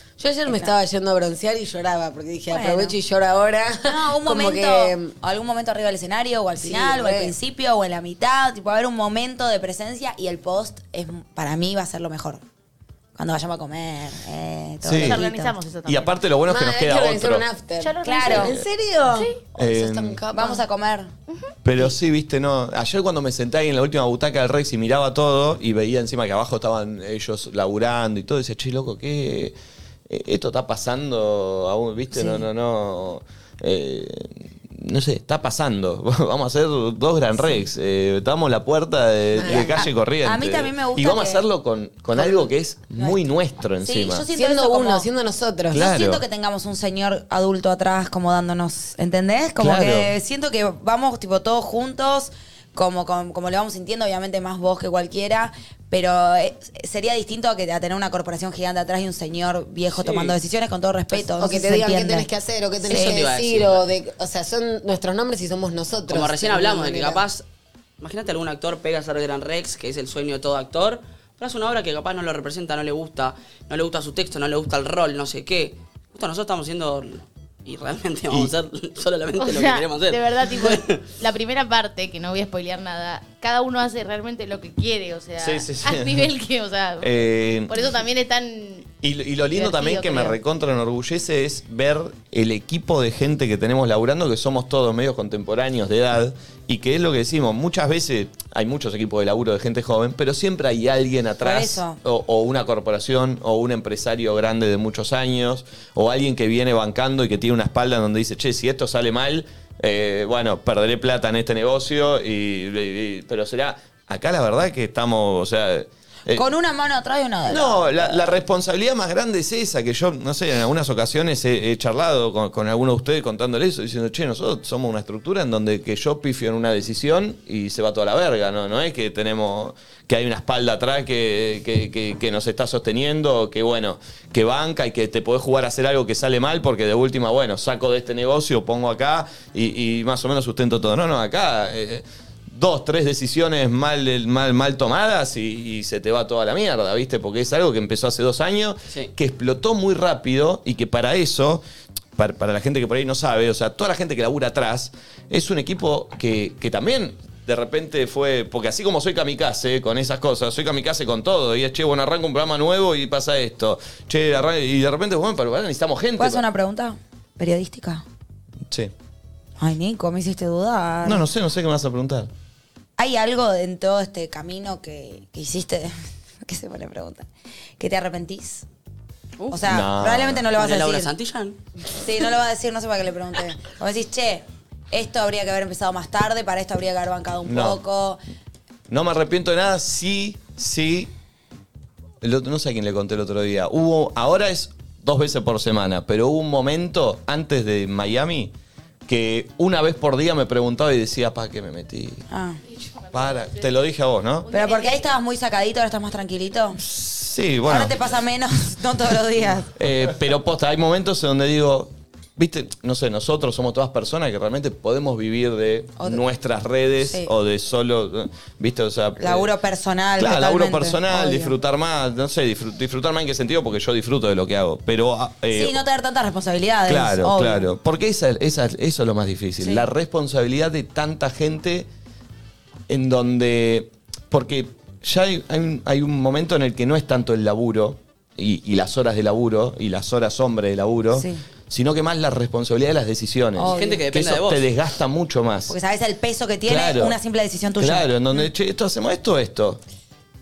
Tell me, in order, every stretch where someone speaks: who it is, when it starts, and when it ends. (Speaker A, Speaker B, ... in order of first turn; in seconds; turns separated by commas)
Speaker A: 0.2-5.1, Speaker B: 0.5-0.7, Speaker B: 2.5-3.0, Speaker B: 3.8-12.4, Speaker A: 6.6-7.3, Speaker B: 13.2-15.6, Speaker C: 14.8-15.2, Speaker D: 14.8-16.2, Speaker C: 15.8-17.5, Speaker A: 16.5-20.6, Speaker D: 17.8-19.4, Speaker B: 18.0-18.5, Speaker C: 19.6-20.2, Speaker B: 20.3-21.1, Speaker C: 21.6-29.6, Speaker C: 30.1-44.3, Speaker A: 39.4-39.8, Speaker B: 39.5-41.5, Speaker B: 42.2-43.2, Speaker B: 43.8-45.1, Speaker A: 44.3-45.9, Speaker C: 45.7-46.2, Speaker B: 45.8-62.3, Speaker C: 49.6-50.1, Speaker E: 59.9-60.4, Speaker A: 61.4-67.2, Speaker E: 62.9-63.9, Speaker B: 62.9-63.2, Speaker E: 66.1-67.5, Speaker E: 68.0-81.0, Speaker D: 79.4-88.9, Speaker C: 85.4-86.3, Speaker C: 87.0-87.8, Speaker C: 89.0-116.5, Speaker D: 89.5-90.4, Speaker B: 101.4-102.0, Speaker B: 116.3-118.3, Speaker C: 117.5-151.6, Speaker C: 152.2-166.4, Speaker B: 166.2-168.0, Speaker C: 168.7-168.9, Speaker B: 169.6-171.2, Speaker C: 171.0-172.3, Speaker B: 173.0-177.3, Speaker B: 177.8-178.7, Speaker E: 179.4-179.7, Speaker B: 179.5-181.1, Speaker C: 179.7-180.5, Speaker E: 180.5-181.6, Speaker B: 182.0-188.2, Speaker C: 187.5-187.8, Speaker C: 188.9-191.1, Speaker C: 192.2-198.5, Speaker C: 199.1-202.2, Speaker B: 202.3-202.6, Speaker D: 202.7-203.9, Speaker C: 203.1-204.5, Speaker D: 204.4-205.1, Speaker B: 204.5-206.8, Speaker C: 206.8-208.0, Speaker B: 207.7-209.7, Speaker C: 209.8-219.5, Speaker B: 217.0-217.3, Speaker B: 219.2-221.5, Speaker C: 220.2-225.8, Speaker B: 225.5-227.7, Speaker C: 226.9-231.9, Speaker B: 229.6-229.9, Speaker C: 232.9-245.8, Speaker B: 241.1-241.4, Speaker B: 243.6-244.1, Speaker E: 243.7-244.7, Speaker B: 245.7-248.1, Speaker C: 246.7-247.2, Speaker C: 247.8-249.8